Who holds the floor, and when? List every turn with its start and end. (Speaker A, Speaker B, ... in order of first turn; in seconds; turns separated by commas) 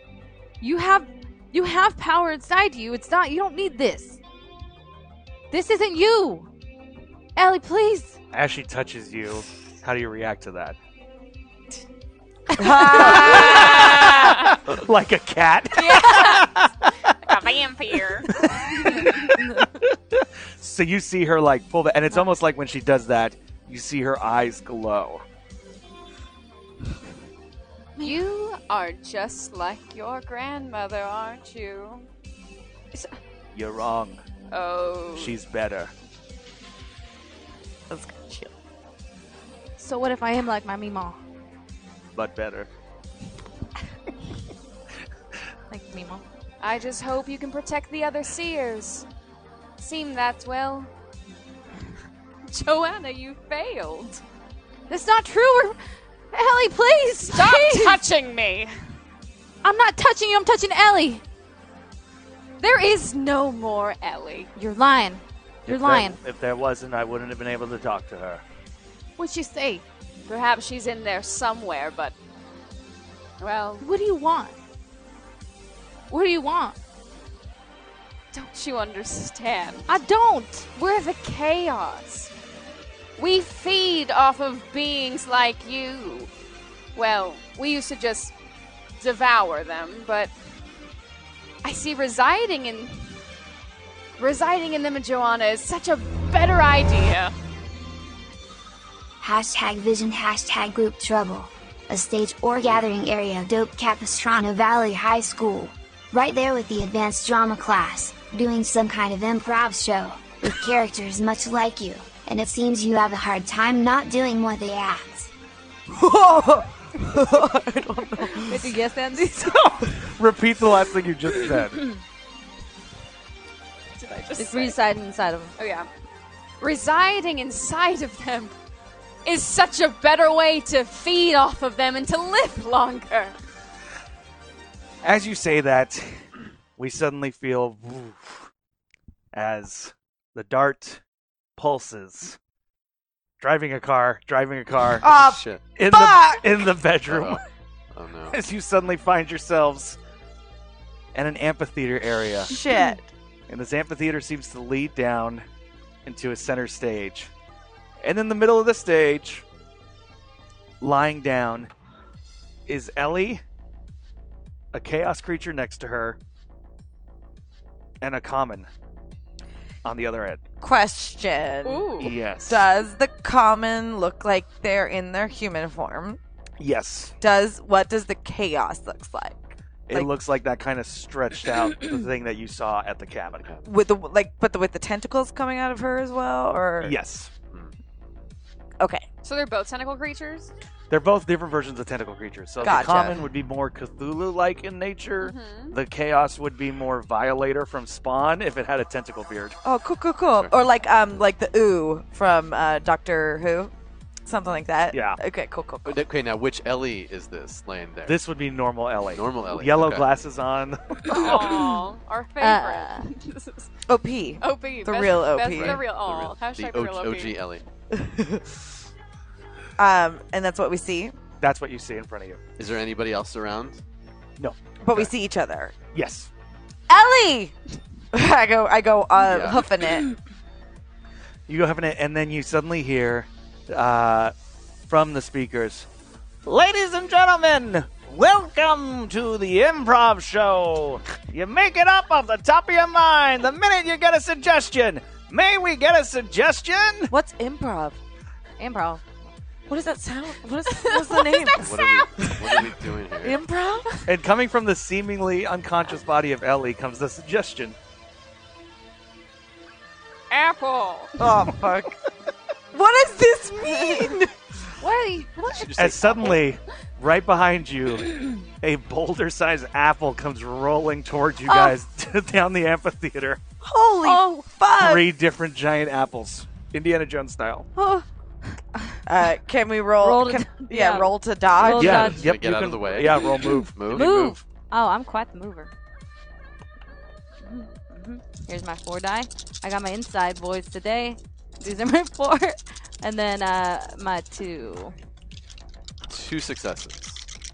Speaker A: 0.6-4.2, Speaker A: 5.5-6.5, Speaker A: 7.3-8.2, Speaker B: 8.3-10.8, Speaker A: 12.5-13.4, Speaker C: 12.6-14.1, Speaker D: 13.1-14.5, Speaker B: 13.1-17.4, Speaker D: 15.9-16.4, Speaker D: 17.2-18.3, Speaker B: 18.0-25.2, Speaker A: 19.3-19.7, Speaker A: 28.0-28.2, Speaker D: 28.0-32.1, Speaker B: 33.5-34.2, Speaker D: 34.5-35.4, Speaker B: 35.1-35.9, Speaker C: 37.9-38.5, Speaker A: 39.8-41.2, Speaker B: 42.1-42.7, Speaker A: 45.7-46.2, Speaker D: 46.6-49.0, Speaker D: 49.8-50.9, Speaker D: 52.5-54.2, Speaker A: 54.9-55.8, Speaker A: 56.3-58.0, Speaker D: 57.3-58.7, Speaker A: 59.6-61.2, Speaker D: 62.6-64.5, Speaker A: 64.5-66.2, Speaker B: 65.7-68.4, Speaker A: 69.2-69.8, Speaker D: 70.3-72.1, Speaker D: 73.4-73.8, Speaker A: 73.8-74.5, Speaker A: 76.1-76.8, Speaker D: 78.3-79.9, Speaker A: 79.9-80.7, Speaker D: 80.7-82.3, Speaker D: 83.2-86.3, Speaker D: 86.9-88.3, Speaker D: 89.0-90.3, Speaker D: 91.6-93.1, Speaker D: 94.2-97.3, Speaker E: 99.2-115.3, Speaker C: 115.9-118.7, Speaker A: 118.2-119.6, Speaker C: 119.7-120.0, Speaker B: 119.9-121.8, Speaker D: 124.0-124.8, Speaker A: 124.4-125.5, Speaker D: 125.6-125.9, Speaker D: 126.6-128.5, Speaker D: 129.2-133.3, Speaker B: 135.0-136.2, Speaker B: 136.8-138.5, Speaker B: 139.3-141.0, Speaker B: 141.6-142.4, Speaker B: 143.4-145.1, Speaker C: 145.0-146.5, Speaker F: 145.1-145.6, Speaker B: 145.7-147.4, Speaker F: 147.1-147.4, Speaker F: 147.9-148.4, Speaker B: 148.3-150.0, Speaker B: 151.1-152.5, Speaker C: 152.5-153.1, Speaker B: 153.5-155.4, Speaker B: 156.1-157.3, Speaker B: 158.0-159.4, Speaker B: 160.8-161.7, Speaker B: 162.7-163.4, Speaker B: 164.7-166.2, Speaker B: 168.0-168.7, Speaker B: 169.8-170.4, Speaker C: 170.6-176.2, Speaker D: 171.6-172.1, Speaker B: 172.0-172.7, Speaker B: 176.6-177.1, Speaker C: 177.2-180.1, Speaker B: 179.9-183.4, Speaker C: 183.6-186.9, Speaker B: 186.8-187.3, Speaker C: 188.8-189.0, Speaker D: 189.2-190.5, Speaker B: 190.9-199.6, Speaker C: 192.6-193.2, Speaker D: 195.2-195.8, Speaker C: 199.6-203.7, Speaker C: 204.2-206.0, Speaker B: 204.9-205.2, Speaker F: 205.8-208.2, Speaker B: 208.1-211.6, Speaker F: 209.1-210.1, Speaker D: 211.1-213.7, Speaker A: 211.2-211.8, Speaker A: 212.4-213.1, Speaker C: 213.9-215.8, Speaker D: 214.4-217.3, Speaker F: 215.5-217.6, Speaker C: 217.9-218.4, Speaker C: 219.8-221.1, Speaker B: 221.4-222.4, Speaker F: 222.6-223.8, Speaker B: 224.4-225.0, Speaker C: 224.8-225.7, Speaker B: 225.9-226.3, Speaker C: 226.9-227.5, Speaker C: 228.1-230.1, Speaker F: 229.2-229.7, Speaker B: 231.5-234.3, Speaker B: 234.9-235.9, Speaker B: 236.4-247.1, Speaker C: 247.1-248.0, Speaker A: 248.6-249.0, Speaker C: 249.7-254.0, Speaker D: 250.7-252.3, Speaker F: 251.6-253.4, Speaker B: 254.1-257.8, Speaker D: 260.3-261.2, Speaker C: 261.2-261.9, Speaker C: 262.7-264.3, Speaker D: 263.6-264.1, Speaker A: 264.8-265.7, Speaker F: 265.5-266.4, Speaker B: 265.8-273.4, Speaker C: 271.5-271.7, Speaker C: 273.6-275.1, Speaker A: 274.0-274.4, Speaker B: 274.8-277.7, Speaker A: 277.8-279.0, Speaker C: 279.1-282.1, Speaker A: 280.0-282.3, Speaker F: 281.6-284.4, Speaker B: 281.7-284.1, Speaker A: 283.9-285.7, Speaker A: 287.4-294.9, Speaker F: 296.1-297.2